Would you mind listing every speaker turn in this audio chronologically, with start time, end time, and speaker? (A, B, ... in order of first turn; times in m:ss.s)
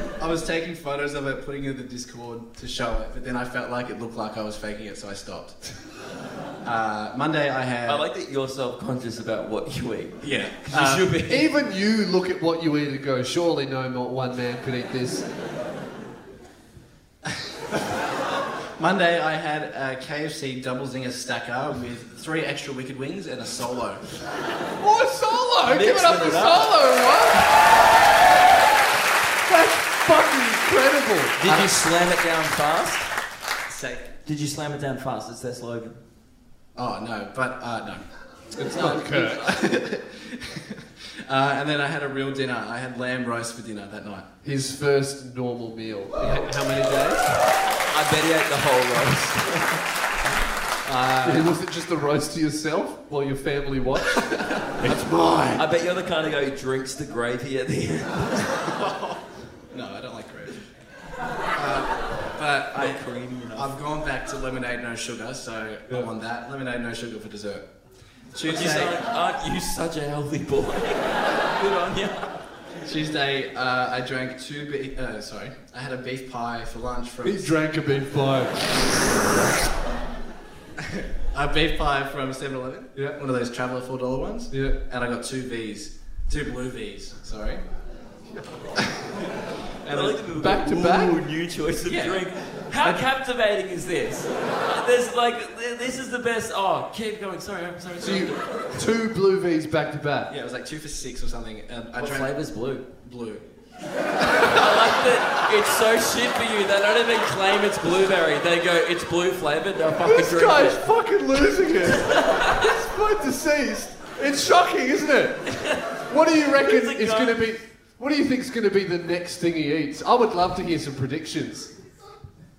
0:00.2-0:05.6 A
0:06.6-0:08.0 A
0:07.8-0:11.5 B
0:10.2-0:11.1 A
0:11.3-0:15.3 C
0:18.8-0:24.0 A
0:24.8-0:27.5 C
0:25.6-0:26.8 B
0:29.4-0:31.7 C
0:31.4-0:33.1 B
0:33.7-0:34.2 A
0:34.2-0:36.0 B
0:36.8-0:38.0 A
0:38.6-0:39.4 C
0:38.6-0:39.4 B
0:38.8-0:44.2 A
0:44.4-0:47.3 C
0:47.9-0:49.8 B
0:50.8-0:55.6 C
0:54.2-0:54.8 A
0:55.5-0:58.7 B
0:58.6-0:59.2 A
0:59.7-1:00.6 A
1:01.5-1:03.0 A
1:02.7-1:03.7 B
1:03.5-1:07.6 A
1:08.3-1:09.0 A
1:08.4-1:12.3 B
1:12.8-1:17.5 A
1:17.2-1:18.5 C
1:20.8-1:27.6 A
1:28.3-1:28.6 C
1:29.8-1:30.2 A
1:29.9-1:38.8 B
1:30.3-1:31.2 C
1:31.8-1:32.2 A
1:38.0-1:40.3 C
1:40.3-1:42.4 A
1:42.0-1:42.8 B
1:43.0-1:43.4 A
1:44.4-1:50.8 B
1:50.0-2:01.7 C
1:52.0-1:52.5 B
1:55.5-1:55.8 B
1:56.5-1:57.4 B